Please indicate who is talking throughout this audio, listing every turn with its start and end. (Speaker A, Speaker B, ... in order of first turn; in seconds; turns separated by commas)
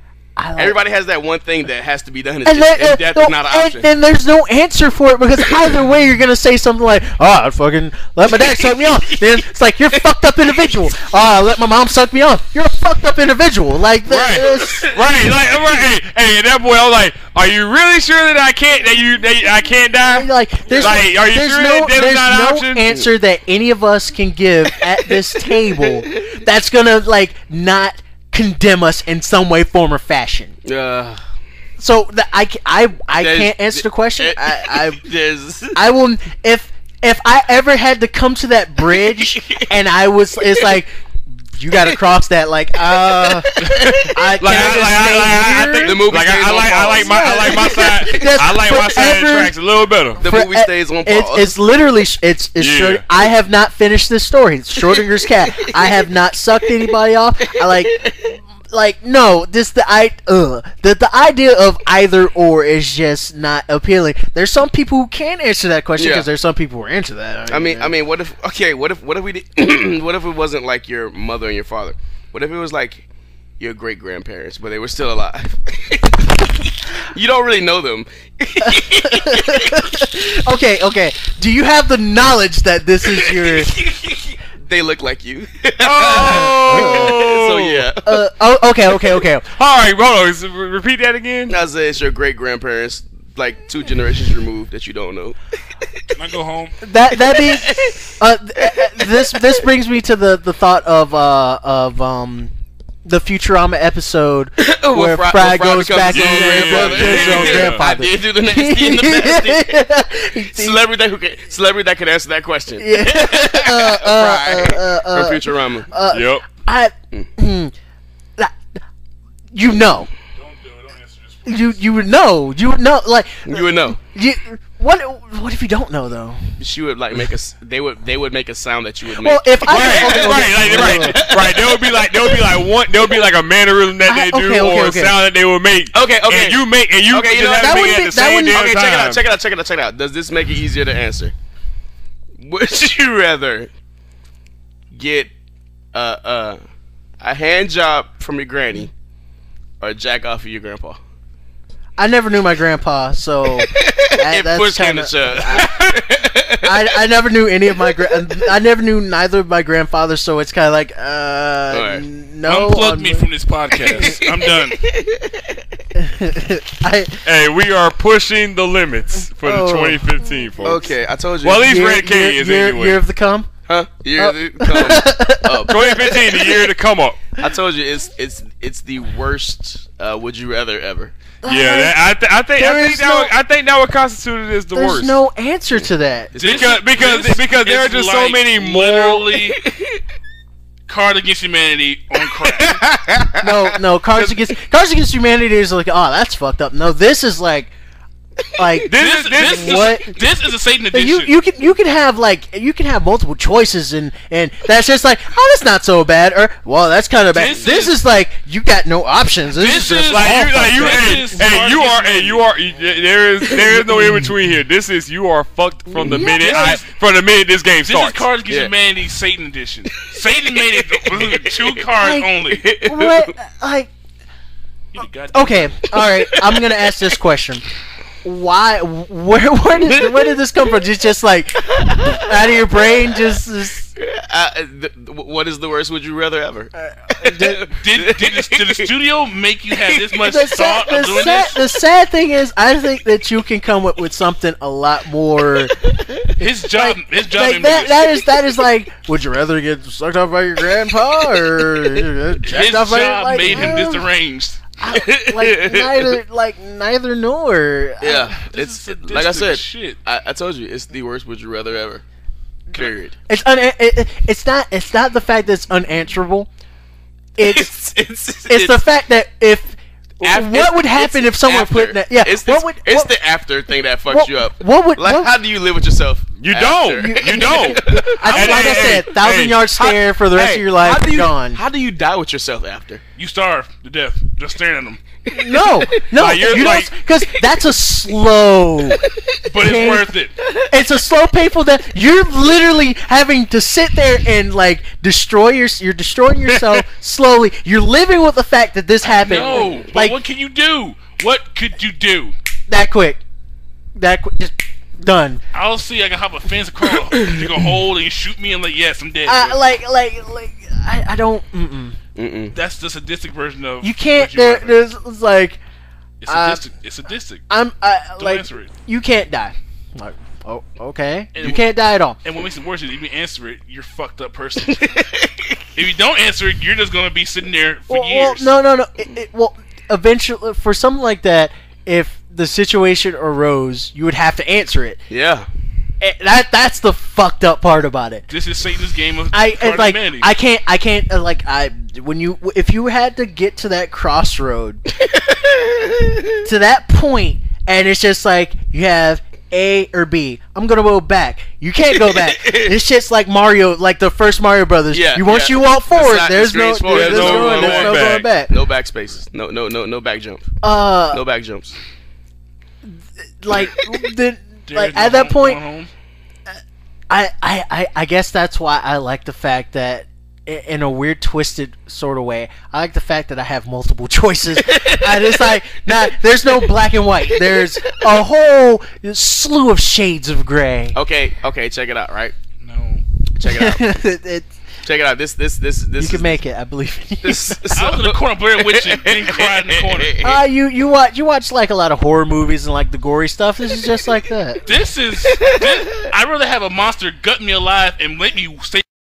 Speaker A: 0.4-0.8, Speaker B: 0.6-3.9, Speaker A: 2.5-14.9, Speaker B: 8.3-9.4, Speaker B: 10.6-10.8, Speaker C: 14.1-23.0, Speaker B: 14.3-15.0, Speaker A: 20.1-30.6, Speaker B: 25.4-26.4, Speaker B: 30.6-31.2, Speaker A: 31.8-35.0, Speaker B: 33.2-35.8, Speaker A: 35.8-40.9, Speaker B: 39.0-39.6, Speaker A: 41.5-46.2, Speaker B: 42.9-44.8, Speaker C: 44.4-50.2, Speaker B: 45.8-48.3, Speaker A: 47.0-49.5, Speaker B: 50.2-51.6, Speaker A: 50.2-67.9, Speaker C: 52.6-53.0, Speaker B: 55.8-56.0, Speaker B: 57.6-58.4, Speaker B: 66.0-66.3, Speaker B: 67.5-73.1, Speaker B: 73.6-80.0, Speaker A: 78.6-83.8, Speaker B: 83.1-88.3, Speaker C: 85.8-87.9, Speaker A: 86.1-87.2, Speaker A: 88.0-89.5, Speaker C: 89.6-91.6, Speaker B: 91.5-96.1, Speaker D: 96.1-96.8, Speaker A: 96.8-102.5, Speaker B: 97.2-98.0, Speaker B: 98.6-99.6, Speaker A: 103.0-110.8, Speaker B: 104.6-109.9, Speaker C: 106.1-107.9, Speaker B: 110.4-115.9, Speaker A: 112.8-117.7, Speaker C: 116.1-116.5, Speaker A: 118.4-118.6, Speaker A: 119.5-120.1, Speaker D: 120.4-121.8, Speaker A: 121.5-126.6, Speaker B: 123.5-124.0, Speaker B: 126.6-132.5, Speaker A: 129.2-131.3, Speaker C: 129.6-139.2, Speaker A: 134.1-135.1, Speaker B: 135.9-141.3, Speaker A: 137.6-138.6, Speaker B: 142.4-143.7, Speaker B: 144.9-145.3, Speaker B: 145.9-146.6, Speaker B: 147.2-148.9, Speaker B: 149.8-151.0, Speaker A: 152.0-156.0, Speaker B: 153.6-157.0, Speaker C: 155.6-155.9, Speaker A: 156.6-163.3, Speaker B: 157.8-158.3, Speaker B: 161.7-162.1, Speaker D: 162.4-164.8, Speaker B: 163.8-165.6, Speaker A: 166.0-167.2, Speaker C: 167.2-173.0, Speaker A: 169.4-170.2, Speaker B: 170.6-171.7, Speaker A: 171.6-173.5, Speaker B: 173.7-176.1, Speaker A: 174.2-176.7, Speaker C: 175.7-177.2, Speaker B: 177.4-181.2, Speaker A: 181.4-181.9, Speaker C: 181.4-185.2, Speaker A: 182.6-183.3, Speaker A: 184.8-186.3, Speaker B: 186.3-186.8, Speaker D: 186.4-189.6, Speaker C: 186.4-189.3, Speaker B: 189.6-190.0, Speaker D: 190.9-192.8, Speaker B: 192.7-193.5, Speaker A: 193.4-197.7, Speaker A: 198.6-200.2, Speaker C: 198.8-199.9, Speaker D: 198.9-201.3, Speaker A: 200.9-211.3, Speaker D: 207.3-208.0, Speaker D: 209.6-212.4, Speaker C: 210.1-218.3, Speaker A: 213.8-214.3, Speaker A: 215.9-216.8, Speaker B: 216.0-216.3, Speaker D: 216.4-216.8, Speaker D: 217.8-222.7, Speaker B: 220.2-221.8, Speaker A: 222.0-223.9, Speaker B: 222.5-223.3, Speaker D: 224.9-226.0, Speaker A: 225.3-227.6, Speaker B: 225.9-226.7, Speaker A: 228.2-233.9, Speaker B: 229.8-230.7, Speaker B: 231.7-233.4, Speaker B: 234.0-238.9, Speaker A: 236.8-237.6, Speaker D: 237.8-241.6, Speaker A: 240.2-245.9, Speaker D: 246.4-248.3, Speaker A: 246.7-254.1, Speaker B: 250.7-252.1, Speaker D: 252.5-254.6, Speaker B: 253.5-253.8, Speaker A: 254.8-258.3, Speaker B: 254.9-256.2, Speaker B: 258.0-262.0, Speaker D: 258.4-260.0, Speaker B: 262.7-263.1, Speaker A: 263.3-266.5, Speaker A: 267.4-267.7, Speaker B: 267.4-268.8, Speaker A: 268.5-273.1, Speaker B: 270.2-278.6, Speaker A: 274.1-275.3, Speaker C: 276.4-279.7, Speaker A: 277.0-281.6, Speaker D: 278.3-278.8, Speaker B: 279.8-283.0, Speaker D: 283.2-285.0, Speaker A: 285.3-289.0, Speaker B: 285.4-286.0, Speaker C: 286.1-286.9, Speaker B: 288.9-289.4, Speaker D: 289.5-290.3, Speaker A: 289.6-290.1, Speaker A: 290.7-300.2, Speaker C: 296.5-296.8, Speaker D: 299.2-302.4, Speaker A: 302.7-303.2, Speaker A: 303.9-305.4, Speaker D: 305.5-309.6, Speaker A: 309.3-312.0, Speaker B: 312.2-312.6, Speaker D: 312.5-314.8, Speaker A: 313.8-315.6, Speaker D: 316.2-317.4, Speaker A: 316.3-316.6, Speaker A: 317.5-322.2, Speaker D: 318.2-318.7, Speaker D: 321.3-321.7, Speaker D: 322.2-325.0, Speaker B: 324.7-325.6, Speaker D: 325.8-328.5, Speaker A: 327.9-335.0, Speaker B: 335.1-335.5, Speaker A: 336.0-338.3, Speaker D: 338.3-340.3, Speaker A: 339.3-344.8, Speaker B: 345.0-346.4, Speaker A: 346.4-358.5, Speaker B: 351.9-352.8, Speaker B: 354.9-360.6, Speaker C: 356.9-358.3, Speaker A: 360.6-361.2, Speaker B: 361.1-361.8, Speaker A: 362.8-365.6, Speaker D: 364.7-365.9, Speaker A: 367.1-381.0, Speaker B: 374.6-375.5, Speaker B: 377.3-378.2, Speaker B: 380.9-382.4, Speaker D: 382.6-383.0, Speaker B: 383.4-383.8, Speaker A: 383.4-384.5, Speaker B: 384.8-386.4, Speaker A: 386.0-387.6, Speaker B: 387.2-390.4, Speaker D: 387.7-390.2, Speaker A: 390.2-394.6, Speaker D: 394.7-398.9, Speaker B: 395.3-396.0